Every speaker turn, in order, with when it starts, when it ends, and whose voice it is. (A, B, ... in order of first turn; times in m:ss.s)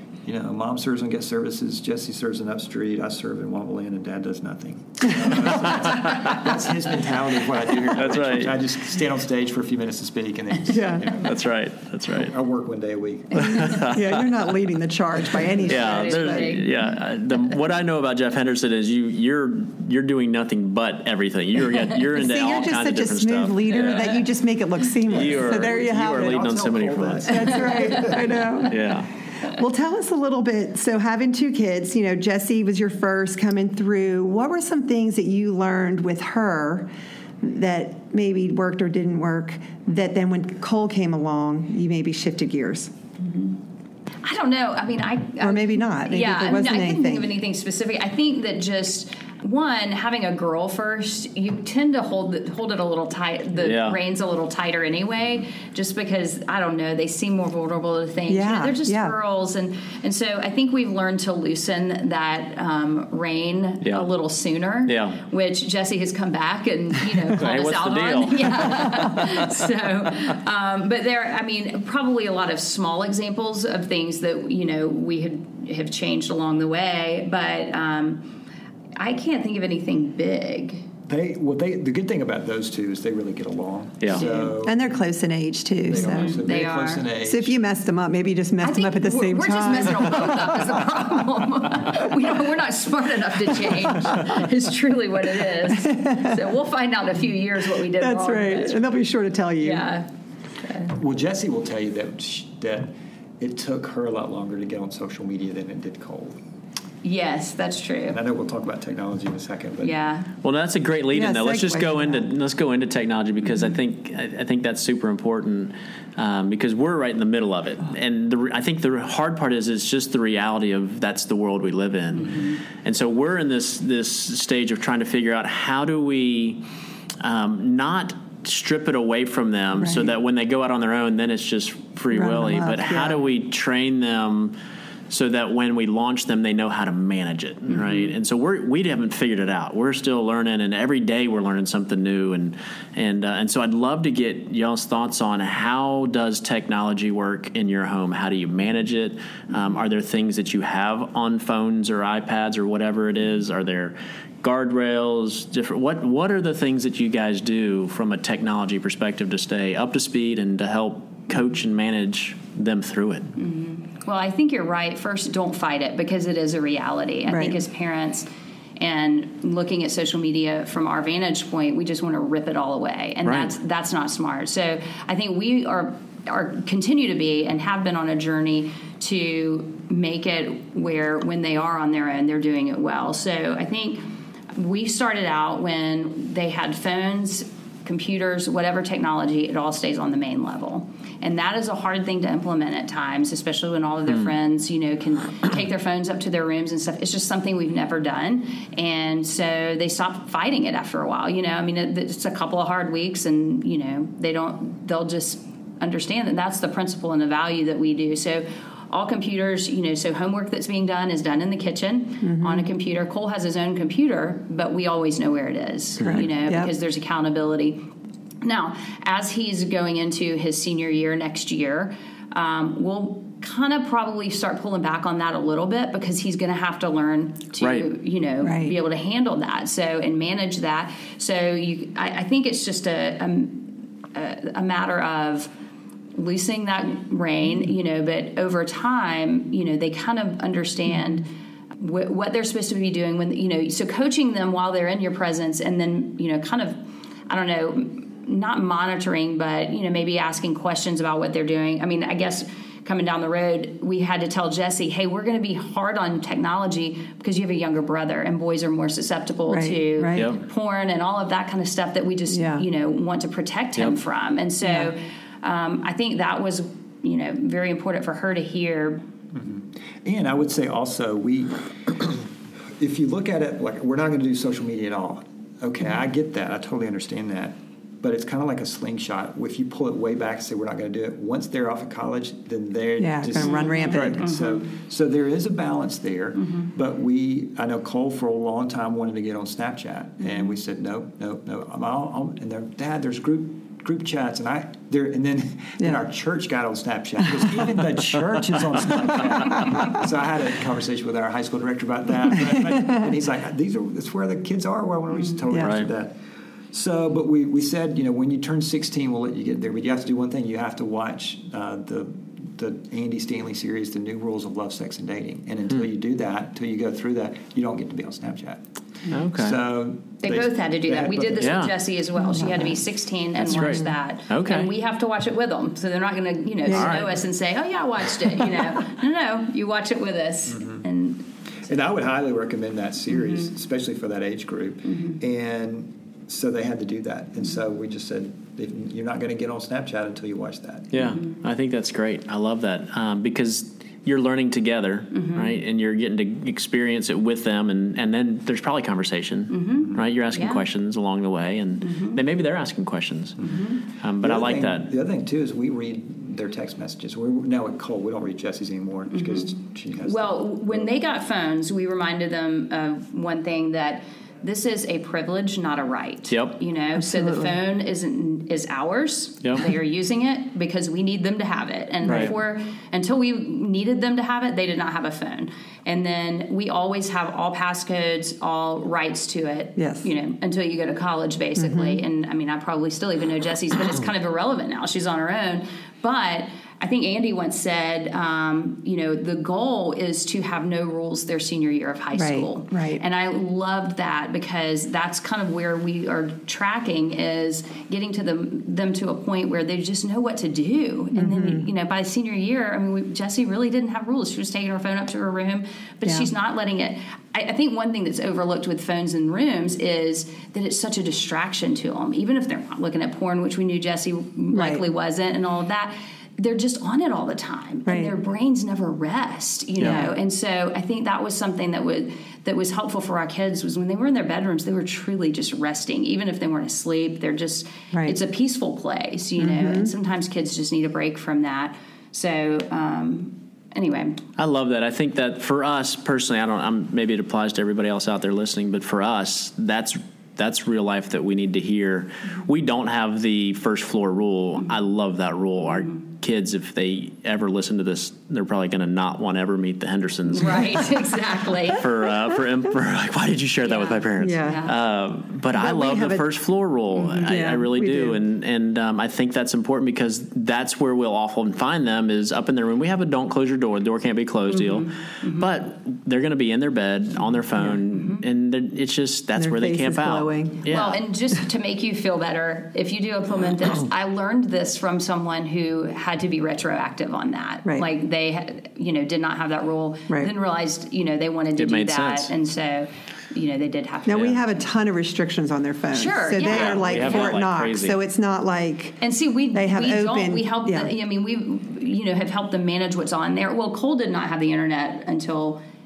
0:00.2-0:11.5 A
0:07.9-0:08.6 B
0:10.7-0:11.1 C
0:11.2-0:12.3 B
0:12.0-0:14.0 A
0:13.4-0:14.2 B
0:13.5-0:13.8 D
0:13.8-0:16.6 C
0:15.6-0:24.2 B
0:15.6-0:16.9 D
0:22.1-0:26.6 C
0:25.0-0:27.7 B
0:25.1-0:28.7 A
0:27.2-0:28.9 C
0:27.8-0:28.4 D
0:28.6-0:29.1 B
0:29.5-0:36.9 C
0:37.4-0:42.9 C
0:43.2-0:43.6 D
0:44.2-1:18.3 D
0:45.4-0:47.3 C
0:53.6-0:54.0 B
0:58.3-0:59.1 C
1:03.8-1:04.1 B
1:04.8-1:05.2 B
1:07.3-1:09.7 B
1:19.0-1:20.8 D
1:21.1-1:24.8 A
1:24.0-1:24.3 B
1:24.1-1:24.5 D
1:24.4-1:26.4 C
1:25.9-1:27.5 A
1:25.9-1:27.0 D
1:27.2-1:31.0 C
1:28.6-1:38.9 D
1:35.7-1:36.4 C
1:37.9-1:39.9 C
1:39.6-1:40.9 D
1:40.9-1:46.4 A
1:47.0-1:48.2 D
1:48.1-1:50.0 A
1:49.8-1:50.3 D
1:50.4-2:06.6 B
1:51.1-1:52.3 C
1:53.5-1:53.7 D
2:02.2-2:02.6 D
2:07.2-2:14.6 B
2:09.8-2:10.1 C
2:12.1-2:13.2 C
2:15.1-2:43.3 B
2:17.7-2:18.1 D
2:43.4-3:37.8 D
2:47.3-2:47.6 C
2:53.2-2:53.5 B
3:32.2-3:32.7 C
3:36.0-3:36.7 C
3:38.4-3:55.5 D
3:47.6-3:47.9 B
3:48.4-3:48.7 C
3:56.1-4:29.0 D
4:19.5-4:20.3 C
4:20.1-4:20.4 B
4:22.3-4:22.6 C
4:24.6-4:24.9 C
4:29.3-5:06.2 A
4:43.0-4:44.2 C
4:43.4-4:44.7 D
4:43.9-4:44.2 B
4:46.4-4:46.7 D
4:57.2-4:57.7 C
4:59.1-4:59.8 C
5:02.5-5:03.0 C
5:05.5-5:05.8 C
5:05.5-5:05.9 B
5:06.7-5:21.7 A
5:19.1-5:19.6 B
5:20.2-5:31.2 D
5:21.4-5:21.7 B
5:22.2-5:22.8 C
5:23.4-5:24.7 B
5:23.5-5:23.9 C
5:26.6-5:27.0 C
5:26.7-5:27.2 B
5:30.5-5:30.8 A
5:31.6-5:40.9 A
5:33.1-5:33.4 D
5:34.9-5:35.2 D
5:40.9-5:54.9 B
5:41.0-5:41.3 D
5:45.1-5:45.6 D
5:49.5-5:50.6 D
5:49.8-5:50.0 A
5:51.8-5:52.2 D
5:53.4-5:53.8 D
5:54.2-6:01.0 A
5:59.1-5:59.5 D
6:00.0-7:14.2 D
6:06.3-6:06.6 B
6:07.0-6:07.6 C
6:09.4-6:09.7 B
6:12.0-6:12.3 B
6:12.1-6:12.3 C
6:19.8-6:20.0 C
6:21.6-6:22.0 C
6:32.1-6:33.0 C
6:41.1-6:41.7 C
6:54.5-6:54.8 C
6:57.8-6:58.1 C
6:59.8-7:00.0 B
6:59.8-7:00.1 C
7:07.9-7:08.2 C
7:09.4-7:09.9 C
7:14.4-7:30.9 B
7:30.3-7:31.8 D
7:31.7-7:51.0 B
7:33.6-7:34.7 D
7:34.2-7:34.7 C
7:35.5-7:36.3 C
7:36.9-7:37.3 D
7:37.2-7:38.2 C
7:44.5-7:45.5 D
7:47.9-7:48.2 D
7:49.4-7:50.7 C
7:50.7-8:04.4 D
8:01.6-8:02.3 B
8:04.0-8:09.0 C
8:05.9-8:07.4 D
8:06.4-8:08.0 B
8:09.0-8:15.6 D
8:09.5-8:10.9 C